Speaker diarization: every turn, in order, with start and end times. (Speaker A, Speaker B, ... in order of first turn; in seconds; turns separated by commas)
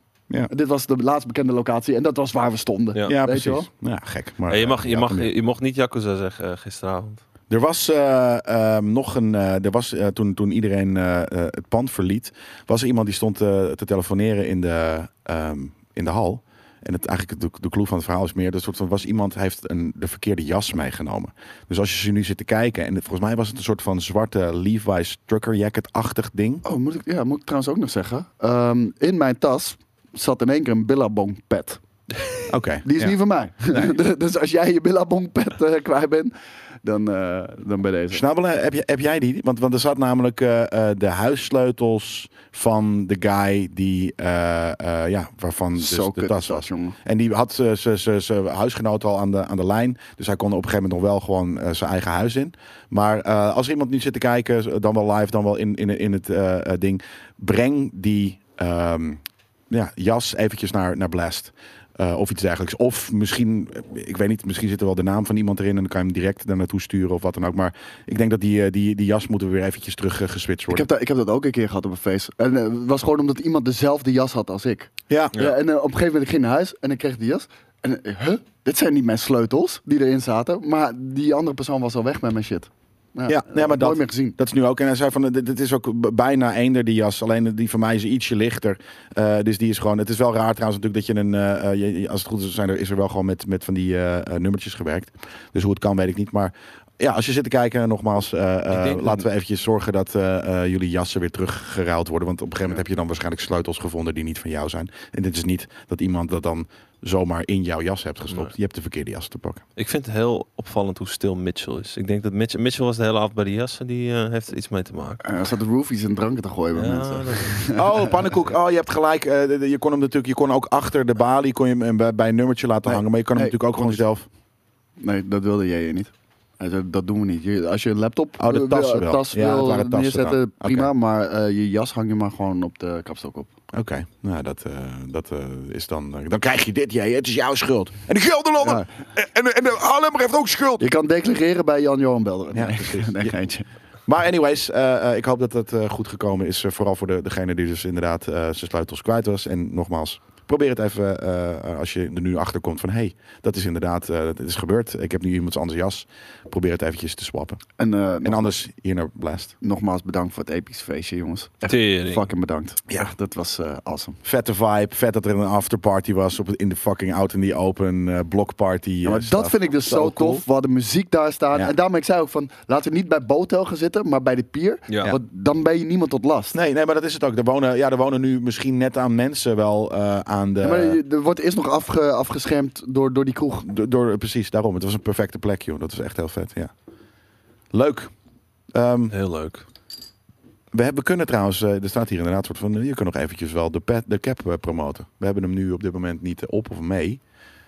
Speaker A: 0.5-3.7, Speaker B: 3.1-5.3, Speaker C: 4.5-7.2, Speaker B: 7.5-26.6, Speaker A: 26.6-31.8, Speaker B: 32.5-33.1, Speaker A: 32.9-36.3, Speaker A: 36.8-38.2, Speaker B: 38.1-70.9, Speaker A: 45.8-47.0, Speaker A: 70.7-84.4, Speaker B: 75.1-75.3, Speaker B: 83.3-109.6, Speaker C: 98.7-99.2, Speaker C: 109.8-115.2, Speaker A: 115.2-118.2, Speaker C: 116.7-117.6, Speaker B: 117.8-124.3, Speaker A: 122.9-124.0, Speaker A: 125.0-133.5, Speaker B: 128.4-130.9, Speaker B: 133.7-140.9, Speaker A: 140.8-143.7, Speaker B: 142.5-143.3, Speaker B: 144.1-157.6, Speaker A: 157.8-158.5, Speaker B: 158.2-159.5, Speaker A: 159.6-164.2, Speaker C: 161.7-162.3, Speaker B: 164.2-170.4, Speaker A: 169.0-176.6, Speaker C: 174.9-175.2, Speaker B: 176.5-181.0, Speaker A: 180.6-183.7, Speaker B: 183.7-186.7, Speaker B: 187.7-188.1, Speaker B: 188.7-189.2, Speaker C: 189.1-189.7, Speaker B: 190.7-197.2